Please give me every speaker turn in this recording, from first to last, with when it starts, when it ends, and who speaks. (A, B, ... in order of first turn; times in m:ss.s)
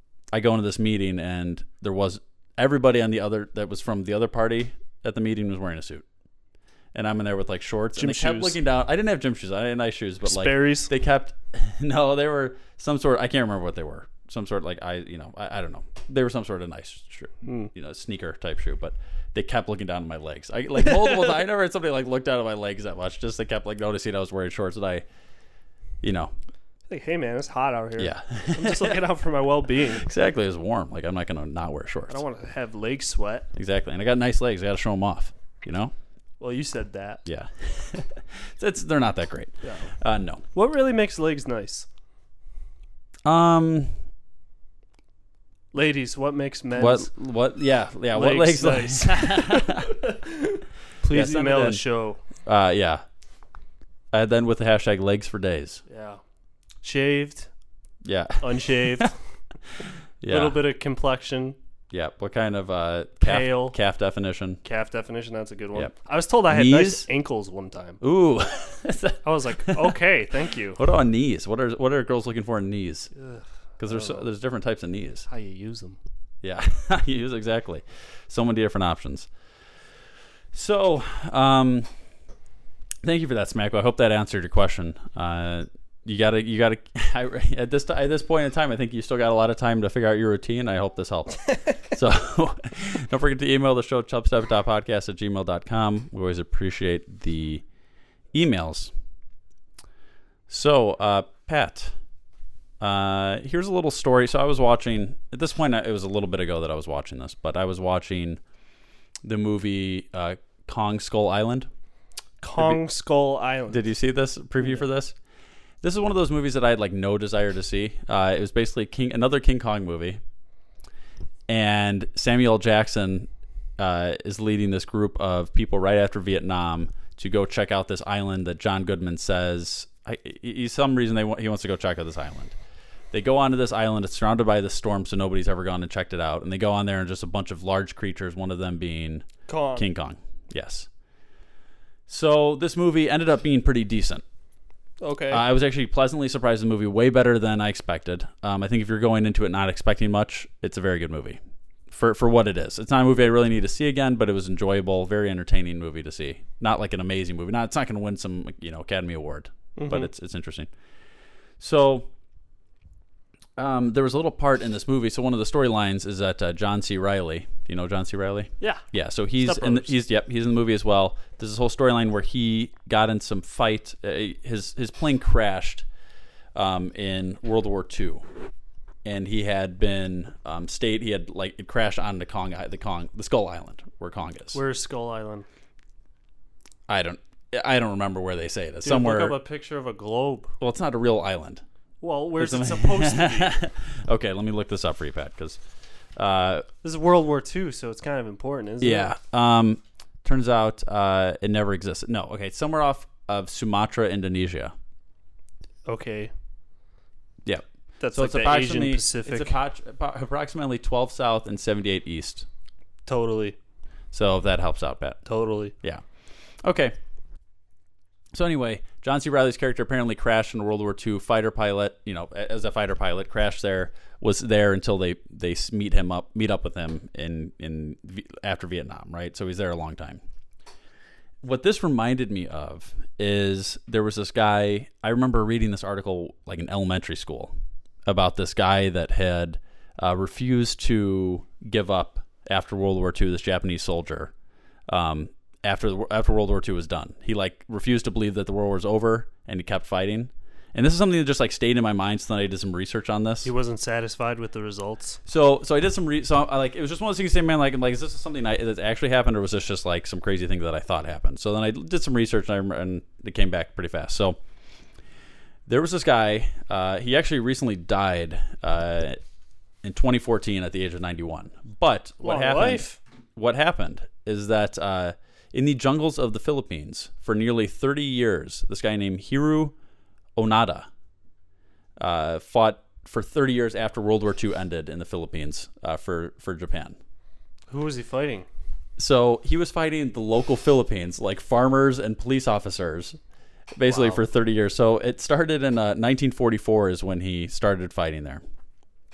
0:00.3-0:06.0 A
0:06.9-0:25.0 A
0:08.0-0:08.6 B
0:10.2-0:10.9 B
0:17.4-0:17.7 B
0:26.0-0:26.3 A
0:26.9-0:30.1 B
0:28.0-0:29.0 A
0:29.9-0:32.2 A
0:32.1-0:33.5 B
0:33.5-0:35.9 A
0:36.4-0:37.2 B
0:37.2-0:40.4 A
0:39.6-0:39.9 B
0:40.5-0:41.9 B
0:43.2-0:43.9 A
0:45.7-0:47.1 B
0:46.8-0:49.9 A
0:48.1-0:52.2 B
0:51.1-0:51.8 A
0:52.4-0:53.0 A
0:54.1-0:55.8 A
0:55.9-0:56.2 B
0:56.8-0:57.5 B
0:58.0-0:59.1 A
0:58.4-0:59.1 B
1:00.2-1:00.6 A
1:00.3-1:01.6 B
1:01.9-1:04.6 A
1:03.2-1:03.8 B
1:04.6-1:08.0 B
1:06.5-1:07.0 A
1:08.0-1:10.0 A
1:09.2-1:10.8 B
1:10.8-1:13.1 A
1:13.1-1:14.2 B
1:13.8-1:15.3 A
1:15.3-1:16.0 B
1:16.4-1:19.3 A
1:20.5-1:21.9 A
1:23.0-1:37.6 A
1:38.3-1:38.9 A
1:40.5-1:41.9 A
1:42.8-1:48.4 A
1:49.2-1:51.7 A
1:52.4-1:53.9 B
1:52.6-1:52.8 A
1:53.7-1:55.1 A
1:55.8-2:00.2 A
2:01.5-2:12.6 A
2:13.1-2:20.9 A
2:19.5-2:19.8 B
2:22.1-2:24.2 A
2:25.0-2:25.4 B
2:25.3-2:31.4 A
2:31.9-2:40.7 A
2:39.8-2:40.1 B
2:41.6-2:42.1 A
2:43.6-2:55.8 A
2:49.4-2:49.9 B
2:56.5-2:58.2 A
2:59.0-3:04.6 A
3:04.5-3:05.4 B
3:06.9-3:09.4 A
3:08.8-3:10.5 B
3:10.6-3:11.6 A
3:12.0-3:13.5 B
3:12.4-3:15.6 A
3:16.2-3:16.6 A
3:16.8-3:19.1 B
3:18.8-3:24.7 A
3:25.8-3:26.3 B
3:27.4-3:32.4 A
3:28.0-3:29.5 B
3:33.0-3:33.6 B
3:34.1-3:35.2 A
3:35.2-3:35.7 B
3:36.6-3:37.0 A
3:38.3-3:50.2 A
3:51.4-3:57.5 A
3:58.0-4:04.3 A
4:04.9-4:13.5 A
4:13.4-4:15.2 B
4:15.2-4:24.4 A
4:25.7-4:29.2 A
4:29.8-4:39.7 A
4:32.2-4:33.0 B
4:40.4-4:40.9 A
4:42.0-4:47.0 A
4:47.7-4:48.5 B
4:49.0-4:53.2 A
4:53.8-4:58.4 A
4:53.8-4:54.2 B